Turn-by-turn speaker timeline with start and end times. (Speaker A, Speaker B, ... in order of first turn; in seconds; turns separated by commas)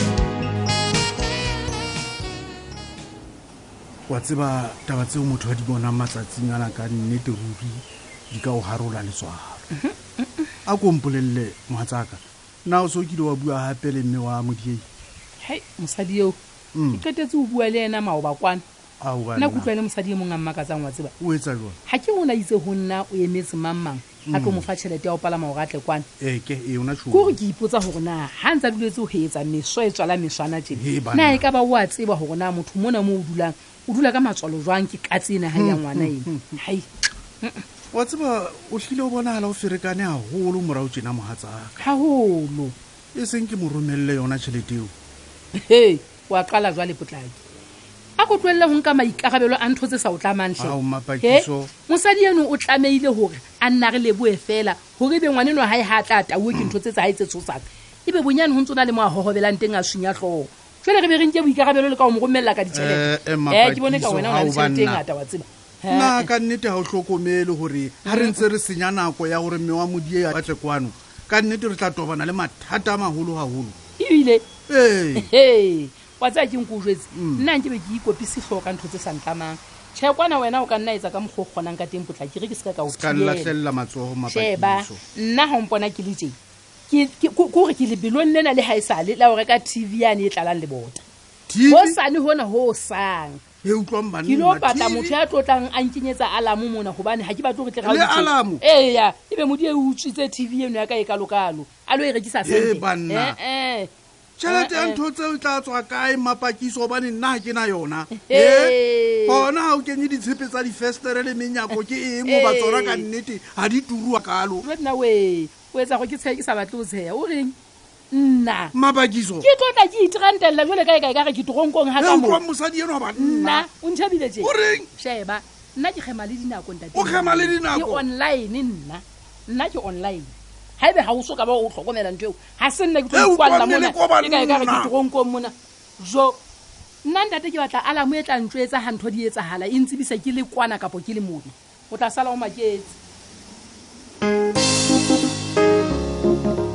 Speaker A: 4.1-9.7, Speaker B: 9.7-10.5, Speaker A: 10.7-14.8, Speaker B: 15.4-16.4, Speaker A: 16.8-17.0, Speaker B: 16.9-18.6, Speaker A: 19.0-19.7, Speaker B: 19.4-21.1, Speaker A: 21.2-21.8, Speaker B: 21.9-26.1, Speaker A: 24.3-24.7, Speaker A: 26.2-27.4, Speaker B: 27.1-36.9, Speaker A: 30.7-31.4, Speaker A: 35.5-36.5, Speaker A: 37.9-41.8, Speaker B: 41.8-42.7, Speaker A: 43.1-44.9, Speaker B: 45.5-47.4, Speaker B: 48.2-66.3, Speaker A: 50.6-51.7, Speaker A: 62.7-65.0, Speaker A: 65.9-73.8, Speaker B: 68.1-68.4, Speaker B: 74.0-74.5, Speaker A: 74.7-75.3, Speaker B: 75.2-83.5, Speaker A: 77.1-77.5, Speaker A: 82.9-85.0, Speaker B: 84.3-86.4, Speaker B: 86.9-91.0, Speaker A: 91.5-92.0, Speaker B: 91.7-93.4, Speaker A: 93.6-95.2, Speaker B: 94.2-103.9, Speaker A: 97.8-98.6, Speaker A: 102.4-103.4, Speaker A: 104.4-108.8, Speaker B: 104.5-105.0, Speaker B: 108.1-109.5, Speaker A: 109.3-114.7, Speaker B: 112.2-113.1, Speaker B: 114.6-117.5, Speaker B: 118.1-118.7, Speaker A: 118.7-119.5, Speaker B: 119.4-122.4, Speaker A: 122.0-123.7, Speaker B: 123.2-136.4, Speaker A: 124.4-124.9, Speaker A: 127.0-128.1, Speaker A: 133.1-134.9, Speaker B: 137.0-142.9